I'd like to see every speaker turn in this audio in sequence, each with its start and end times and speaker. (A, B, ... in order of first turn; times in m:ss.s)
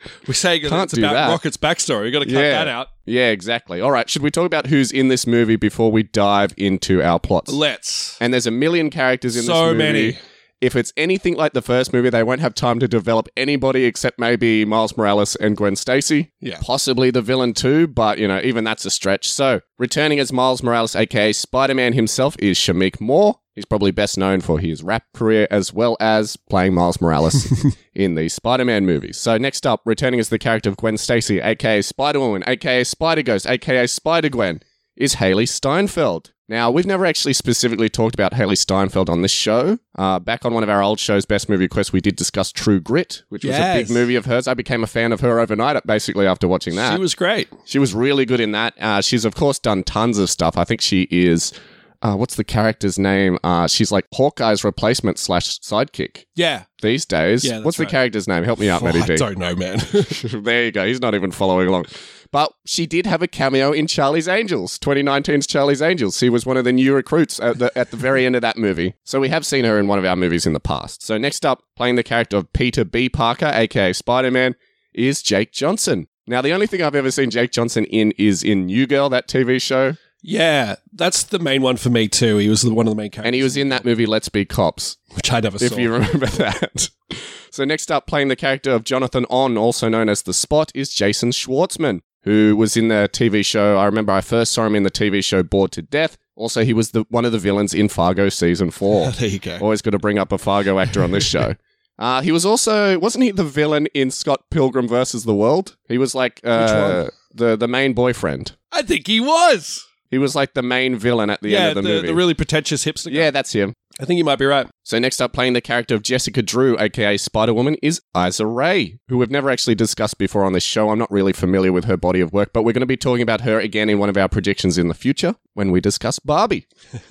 0:00.2-0:02.9 A
0:00.6-0:01.4 B
0:02.2-0:07.6 B
0:07.5-0:08.2 A
0:08.2-0:47.0 B
0:09.3-0:10.2 A
0:43.4-0:44.0 A
0:46.7-0:47.5 A
0:47.7-0:51.5 B
0:52.0-0:56.2 B
0:56.4-0:56.7 A
0:56.8-0:59.2 B
0:57.4-0:57.9 A
0:58.7-1:00.2 A
1:00.1-1:20.0 B
1:20.2-1:23.8 A
1:23.2-1:25.0 B
1:25.1-1:25.9 A
1:25.6-1:48.5 B
1:39.0-1:39.6 A
1:46.5-1:47.0 A
1:48.7-1:49.8 A
1:50.1-1:52.2 B
1:51.5-1:53.3 A
1:53.1-1:53.8 B
1:54.0-1:54.7 A
1:54.8-2:06.6 B